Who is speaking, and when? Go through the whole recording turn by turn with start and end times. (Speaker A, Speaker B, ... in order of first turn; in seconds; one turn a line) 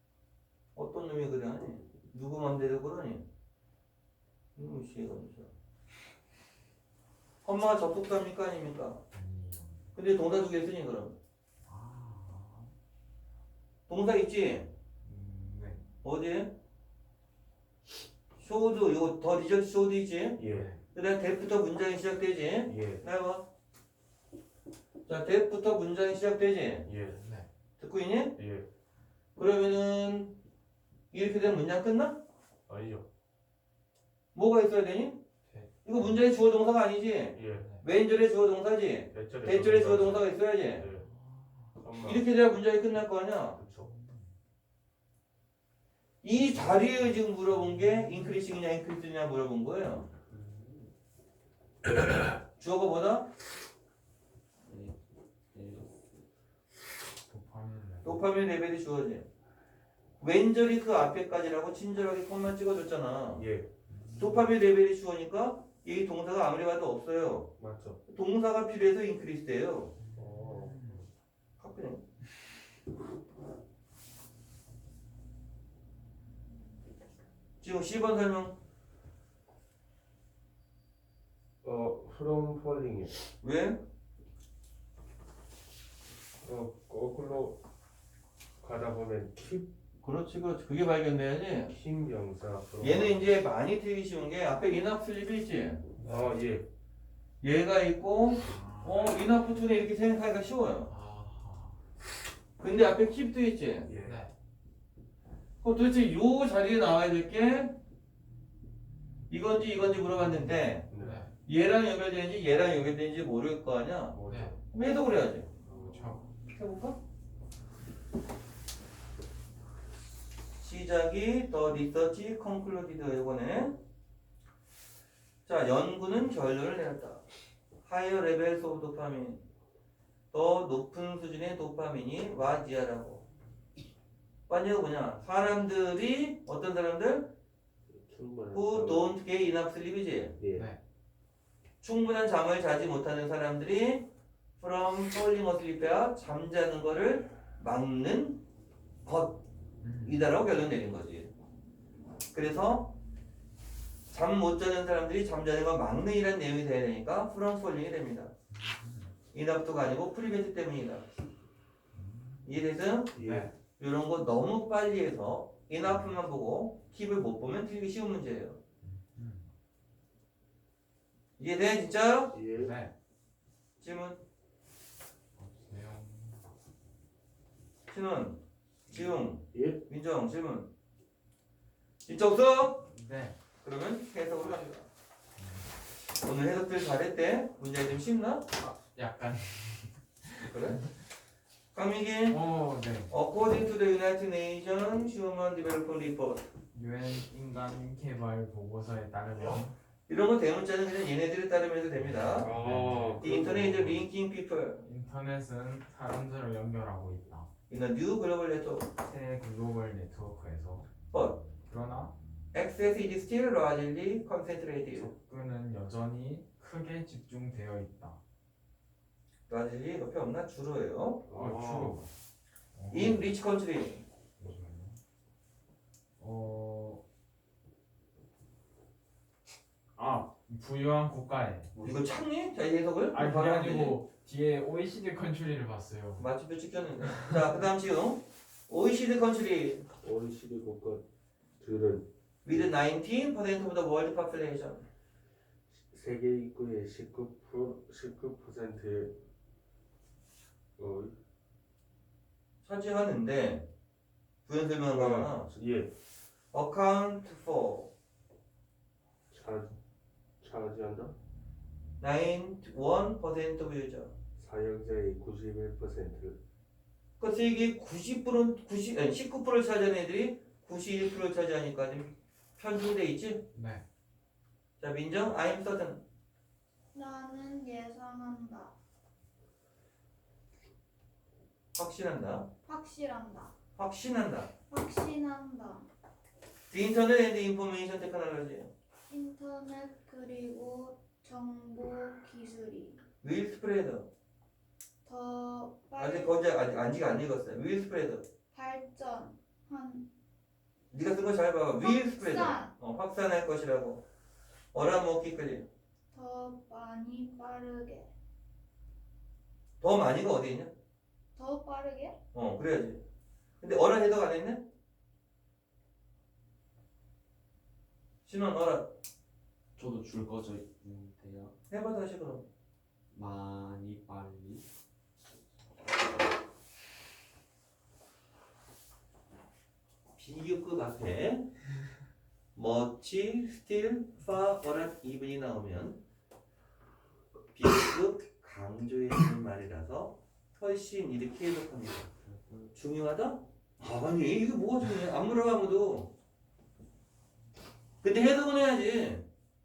Speaker A: 0.8-3.2
Speaker A: 4.5-5.5
Speaker A: 7.4-9.0
Speaker B: 9.1-9.9
Speaker A: 9.9-11.2
Speaker B: 11.7-12.7
Speaker A: 13.9-14.7
Speaker B: 15.0-15.8
Speaker A: 16.0-16.5
Speaker A: 18.4-20.4
Speaker C: 20.4-20.7
Speaker B: 20.4-20.8
Speaker A: 20.9-23.4
Speaker C: 22.6-23.0
Speaker A: 25.1-26.9
Speaker C: 26.9-27.2
Speaker B: 27.1-27.5
Speaker A: 27.8-28.4
Speaker C: 28.4-28.6
Speaker A: 29.4-30.3
Speaker A: 31.1-32.2
Speaker C: 32.7-33.0
Speaker A: 34.3-35.2
Speaker A: 35.8-40.9
Speaker C: 37.3-37.6
Speaker B: 37.5-37.8
Speaker C: 39.1-41.0
Speaker B: 41.0-41.8
Speaker C: 41.8-42.2
Speaker A: 42.0-43.6
Speaker C: 43.5-43.9
Speaker B: 43.8-44.3
Speaker A: 46.2-50.0
Speaker B: 46.5-46.8
Speaker B: 47.5-48.4
Speaker D: 50.3-50.9
Speaker A: 52.6-53.3
Speaker D: 54.6-55.0
Speaker D: 55.5-56.0
Speaker B: 57.2-58.2
Speaker A: 58.0-59.2
Speaker A: 60.2-63.4
Speaker C: 63.3-63.7
Speaker B: 63.9-64.5
Speaker A: 64.2-67.5
Speaker C: 67.6-68.0
Speaker A: 68.1-69.9
Speaker B: 70.0-71.0
Speaker C: 70.1-71.1
Speaker A: 71.6-72.0
Speaker A: 77.6-78.5
Speaker C: 81.6-83.2
Speaker A: 83.4-83.8
Speaker C: 86.4-87.6
Speaker C: 88.6-89.7
Speaker A: 90.0-91.7
Speaker C: 91.7-93.3
Speaker A: 92.8-95.8
Speaker B: 96.0-96.4
Speaker C: 96.0-96.7
Speaker A: 97.4-100.9
Speaker B: 98.4-99.2
Speaker B: 100.9-101.8
Speaker A: 102.6-103.9
Speaker C: 103.8-104.2
Speaker B: 104.0-104.3
Speaker A: 105.6-107.7
Speaker A: 109.3-110.9
Speaker C: 110.9-111.2
Speaker B: 110.9-111.3
Speaker A: 111.5-114.2
Speaker C: 114.1-114.6
Speaker B: 114.2-114.5
Speaker A: 114.7-115.5
Speaker C: 115.6-116.2
Speaker B: 115.7-116.2
Speaker A: 116.5-117.0
Speaker A: 120.6-123.8
Speaker A: 125.5-127.2
Speaker A: 127.8-129.4
Speaker A: 130.3-133.2
Speaker A: 134.5-137.3
Speaker C: 137.9-139.1
Speaker A: 138.5-140.3
Speaker C: 140.4-140.7
Speaker A: 141.8-144.1
Speaker A: 144.6-148.4
Speaker A: 149.0-149.4
Speaker B: 149.8-150.3
Speaker A: 150.0-151.3
Speaker A: 152.3-152.9
Speaker A: 154.1-158.3
Speaker B: 158.5-159.2
Speaker A: 159.3-161.1
Speaker B: 161.9-162.6
Speaker A: 162.4-163.2
Speaker C: 163.1-163.5
Speaker B: 163.2-163.5
Speaker A: 163.8-168.6
Speaker B: 165.8-166.2
Speaker B: 168.8-169.5
Speaker A: 171.4-172.3
Speaker C: 172.3-172.8
Speaker B: 172.5-172.9
Speaker A: 173.8-174.2
Speaker B: 175.3-176.4
Speaker A: 177.9-178.4
Speaker B: 178.9-179.2
Speaker A: 178.9-180.7
Speaker C: 179.5-179.8
Speaker A: 182.0-182.8
Speaker B: 182.8-183.3
Speaker A: 183.6-184.9
Speaker B: 185.3-185.7
Speaker A: 186.2-188.5
Speaker B: 188.6-190.9
Speaker A: 190.5-190.8
Speaker A: 191.7-192.4
Speaker B: 192.3-193.1
Speaker A: 193.1-196.4
Speaker B: 196.7-199.7
Speaker A: 200.1-202.5
Speaker C: 202.3-204.0
Speaker B: 202.3-203.3
Speaker A: 203.2-204.8
Speaker B: 204.8-207.5
Speaker A: 207.7-208.9
Speaker B: 209.1-210.9
Speaker A: 211.1-211.4
Speaker B: 211.7-212.1
Speaker A: 212.5-215.1
Speaker B: 214.9-218.2
Speaker A: 219.5-221.2
Speaker C: 221.2-222.0
Speaker B: 221.3-222.1
Speaker B: 222.8-223.3
Speaker A: 222.9-224.0
Speaker B: 224.4-225.0
Speaker B: 226.2-227.0
Speaker B: 230.0-231.7
Speaker A: 231.8-234.0
Speaker B: 233.1-236.3
Speaker A: 236.2-239.8
Speaker B: 237.1-237.4
Speaker C: 240.0-241.0
Speaker C: 241.6-242.7
Speaker A: 242.4-244.8
Speaker C: 245.7-249.1
Speaker C: 250.8-251.1
Speaker A: 252.6-253.6
Speaker A: 254.5-255.5
Speaker C: 254.8-255.9
Speaker A: 256.5-257.9
Speaker C: 259.3-259.8
Speaker C: 260.4-261.1
Speaker A: 262.0-264.1
Speaker C: 264.4-266.4
Speaker A: 267.2-273.4
Speaker B: 273.5-273.8
Speaker A: 274.8-276.0
Speaker E: 276.9-278.7
Speaker A: 281.8-282.5
Speaker E: 282.6-283.5
Speaker A: 283.8-284.5
Speaker E: 284.7-285.9
Speaker A: 286.7-288.7
Speaker E: 289.1-293.0
Speaker A: 293.2-294.1
Speaker E: 295.0-296.3
Speaker A: 296.0-298.2
Speaker E: 298.5-300.1
Speaker A: 300.9-304.0
Speaker E: 301.8-302.7
Speaker A: 304.7-305.7
Speaker E: 306.1-308.1
Speaker A: 309.8-310.7
Speaker E: 311.4-312.1
Speaker A: 312.3-313.0
Speaker A: 313.6-314.6
Speaker A: 318.2-318.9
Speaker D: 319.8-321.5
Speaker A: 321.7-322.5
Speaker D: 323.1-324.6
Speaker A: 330.2-331.5
Speaker A: 332.5-336.0
Speaker A: 337.5-342.1
Speaker D: 342.1-342.8
Speaker A: 342.8-346.1
Speaker A: 348.0-349.2